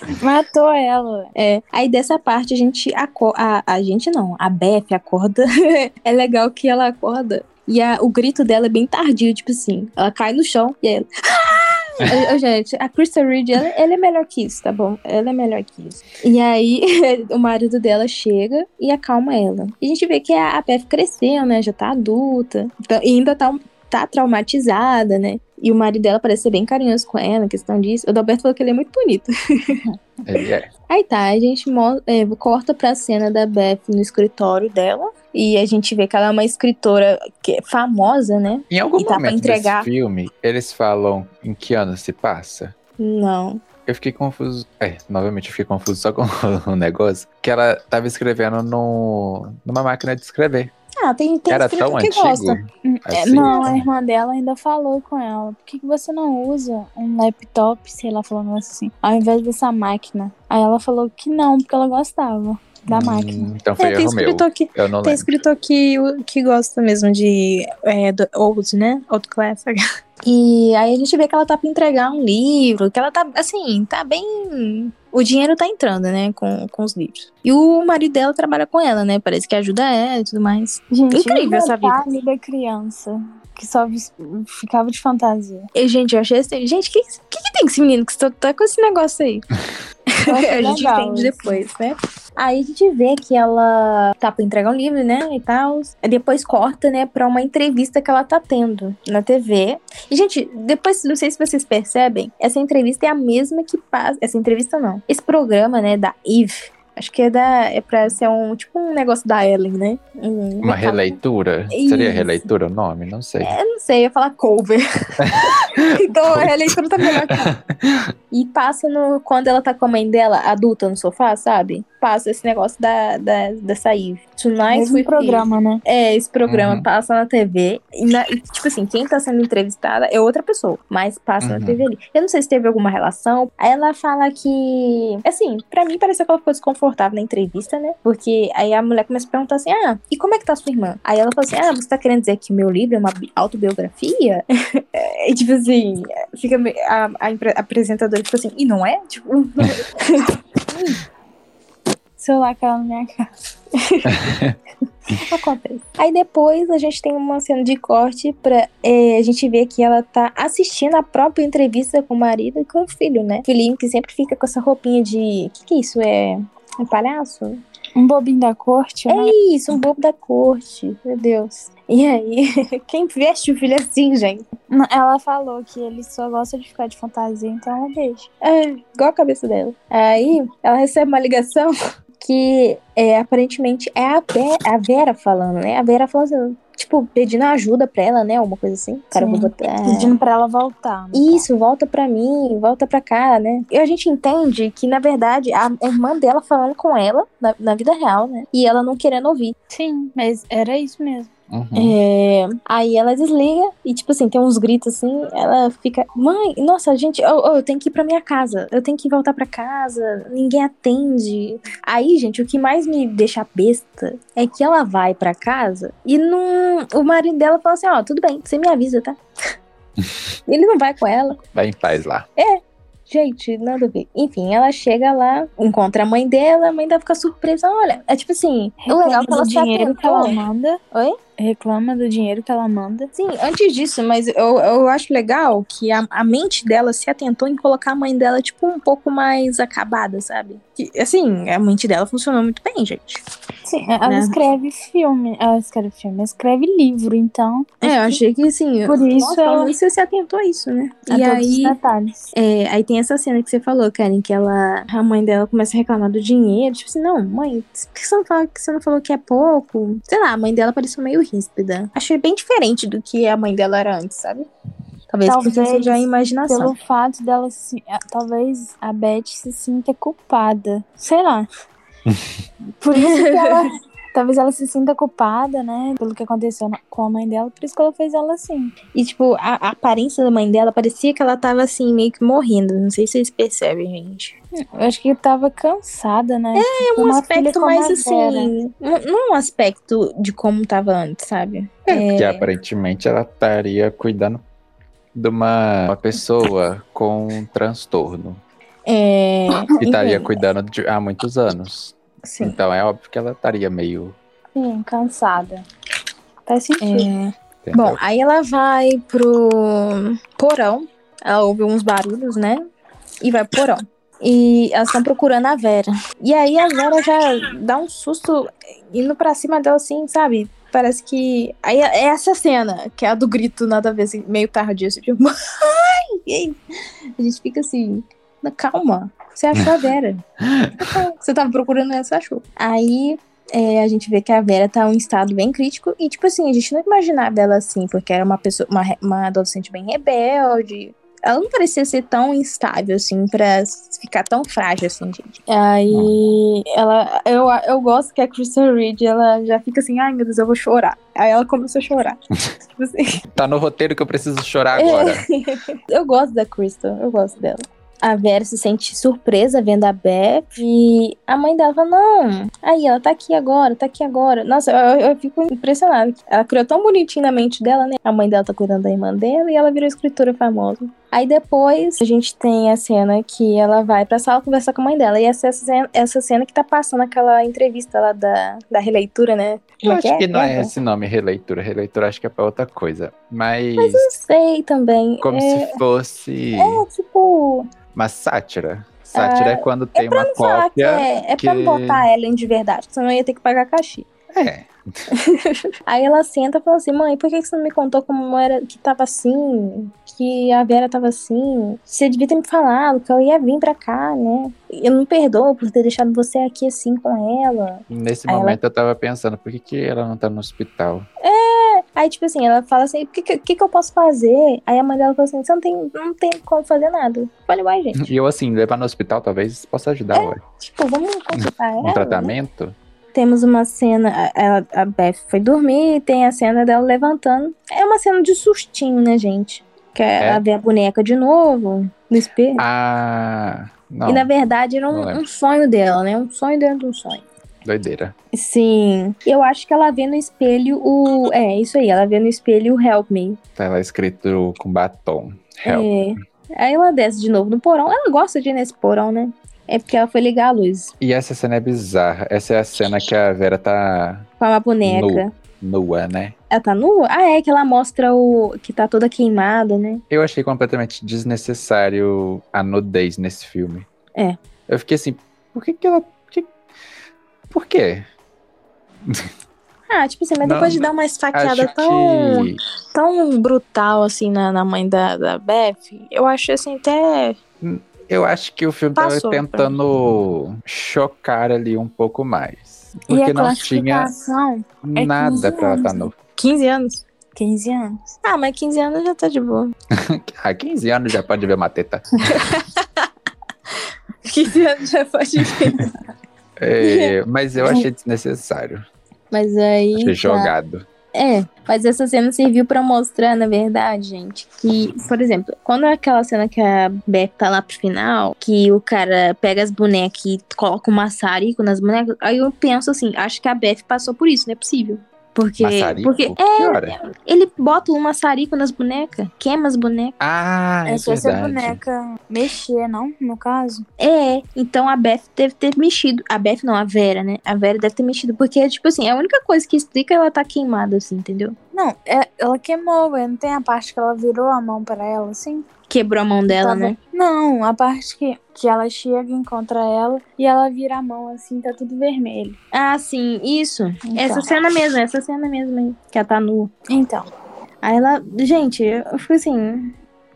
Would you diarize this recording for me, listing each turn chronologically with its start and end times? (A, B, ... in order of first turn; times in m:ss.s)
0:00.2-0:01.3 A
0:01.3-0:29.8 B
0:30.2-0:30.7 C
0:30.9-0:39.9 B
0:38.7-0:42.7 C
0:43.0-0:43.6 B
0:43.8-0:50.7 C
0:51.0-0:52.6 B
0:51.5-0:53.8 C
0:52.8-1:03.5 A
0:53.3-0:53.8 B
1:02.9-1:05.3 C
1:03.8-1:22.0 B
1:20.9-1:25.7 A
1:25.7-1:29.4 B
1:30.3-1:31.6 A
1:30.3-1:51.2 B
1:50.6-1:53.5 C
1:51.7-1:52.4 B
1:53.4-1:57.5 B
1:55.2-1:56.7 C
1:57.2-1:58.1 C
1:58.3-2:31.0 B
2:04.7-2:05.8 A
2:06.5-2:06.8 C
2:11.4-2:11.8 C
2:32.2-2:33.3 A
2:33.9-2:34.1 B
2:34.1-2:34.6 C
2:35.1-2:47.6 B
2:48.0-2:49.3 A
2:49.1-2:54.5 B
2:54.7-2:58.2 A
2:58.4-3:10.1 B
3:09.1-3:11.5 A
3:11.1-3:19.5 B
3:19.7-3:21.3 A
3:21.5-3:22.0 C
3:21.7-3:39.2 B
3:40.5-3:41.4 B
3:41.5-3:42.2 C
3:42.4-3:50.4 B
3:48.8-3:50.8 A
3:51.4-3:53.1 A
3:53.1-4:03.2 B
4:03.6-4:08.2 A
4:04.0-4:04.4 B
4:07.8-4:11.8 B
4:08.8-4:09.7 A
4:11.1-4:12.2 A
4:12.3-4:24.5 B
4:25.1-4:26.7 B
4:25.2-4:31.5 A
4:32.8-4:38.7 A
4:32.9-4:33.6 B
4:38.9-4:44.4 B
4:44.6-4:48.5 A
4:46.5-4:52.5 B
4:51.9-4:54.4 C
4:55.1-4:58.4 C
4:58.8-5:00.4 B
4:59.8-5:04.2 C
5:02.2-5:02.6 B
5:04.5-5:05.6 A
5:06.4-5:07.1 A
5:06.8-5:12.6 B
5:07.6-5:08.0 C
5:13.2-5:26.6 B
5:27.2-5:30.2 B
5:30.4-5:30.7 C
5:30.8-5:53.2 B
5:53.3-5:55.2 C
5:54.7-6:20.7 B
6:19.8-6:24.1 C
6:23.8-6:25.8 B
6:25.2-6:26.8 C
6:26.6-6:27.7 B
6:27.9-6:32.1 C
6:29.1-6:34.1 B
6:34.4-6:34.7 C
6:35.9-6:48.6 B
6:47.9-6:51.1 C
6:51.2-6:58.1 B
6:58.0-7:00.4 C
7:00.1-7:02.3 B
7:01.4-7:02.8 C
7:03.1-7:12.6 B
7:12.6-7:14.3 C
7:14.0-7:17.2 B
7:14.9-7:15.2 C
7:17.6-7:18.1 C
7:18.3-7:23.4 B
7:23.6-7:25.9 C
7:25.6-7:30.9 B
7:31.0-7:34.3 C
7:34.4-7:35.3 B
7:34.8-7:36.3 C
7:36.5-7:40.0 B
7:40.1-7:43.9 C
7:44.7-7:46.5 C
7:47.5-7:48.0 C
7:49.9-7:57.4 B
7:50.4-7:52.6 C
7:57.6-8:04.1 C
7:59.0-7:59.7 B
8:03.1-8:06.1 A
8:04.8-8:06.1 C
8:06.4-8:07.0 B
8:07.3-8:08.1 A
8:08.2-8:09.7 B
8:09.9-8:12.1 C
8:12.3-8:12.8 B
8:14.2-8:16.0 B
8:16.6-8:18.8 C
8:16.8-8:17.8 B
8:19.3-8:20.5 B
8:20.0-8:20.8 C
8:21.1-8:40.1 B
8:35.6-8:37.0 C
8:40.2-8:41.8 C
8:40.8-8:43.8 A
8:44.0-8:51.6 B
8:51.7-8:55.7 A
8:55.9-8:57.0 B
8:56.5-9:02.6 A
9:02.7-9:06.7 B
9:04.0-9:04.5 A
9:06.9-9:07.3 A
9:07.8-9:09.9 B